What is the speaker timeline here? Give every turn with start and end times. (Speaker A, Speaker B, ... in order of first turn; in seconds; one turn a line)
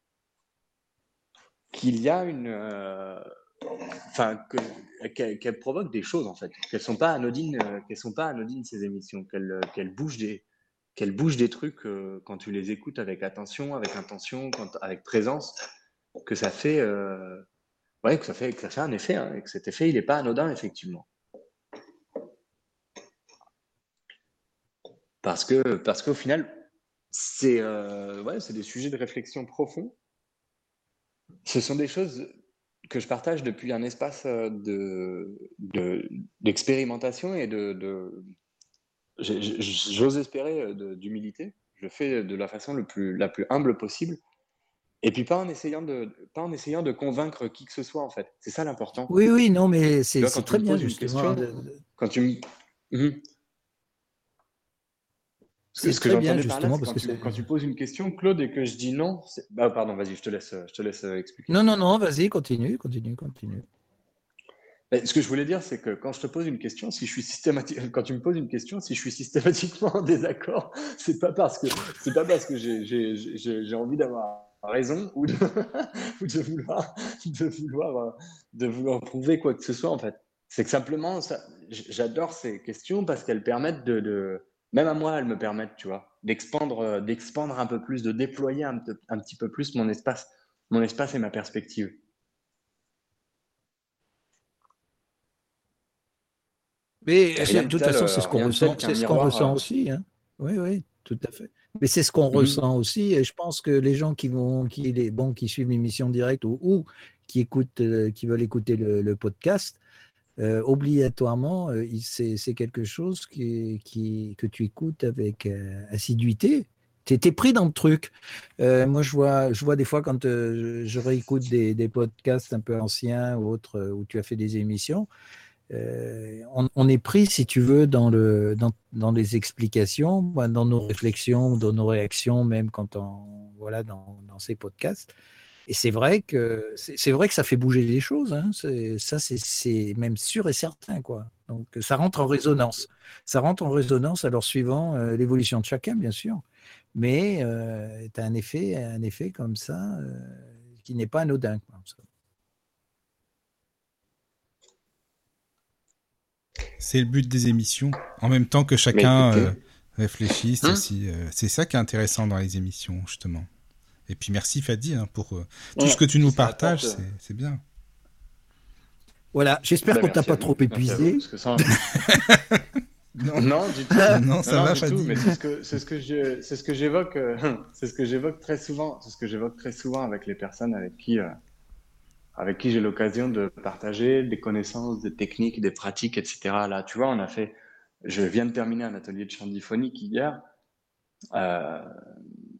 Speaker A: 1.7-3.2
Speaker A: 4.1-15.6
Speaker A: 16.2-17.4
Speaker A: 18.0-21.1
Speaker A: 25.2-26.6
Speaker A: 27.1-29.9
Speaker A: 31.4-32.3
Speaker A: 32.9-38.3
Speaker A: 39.2-44.2
Speaker A: 45.0-49.1
Speaker B: 49.1-51.8
Speaker A: 50.2-51.4
Speaker A: 52.0-53.2
Speaker A: 55.7-61.6
Speaker B: 55.8-57.4
Speaker B: 61.5-63.6
Speaker A: 64.9-92.0
Speaker B: 97.0-109.8
Speaker A: 97.4-99.6
Speaker A: 102.3-102.6
Speaker B: 110.4-125.1
Speaker B: 125.7-135.1
Speaker B: 135.7-152.0
Speaker C: 156.8-163.5
Speaker A: 158.9-159.5
Speaker C: 164.1-167.6
Speaker A: 165.8-167.1
Speaker B: 169.3-172.2
Speaker A: 169.9-172.0
Speaker C: 172.1-172.6
Speaker C: 173.2-173.4
Speaker A: 173.3-181.3
Speaker C: 174.1-175.3
Speaker A: 182.3-190.4
Speaker A: 191.3-192.0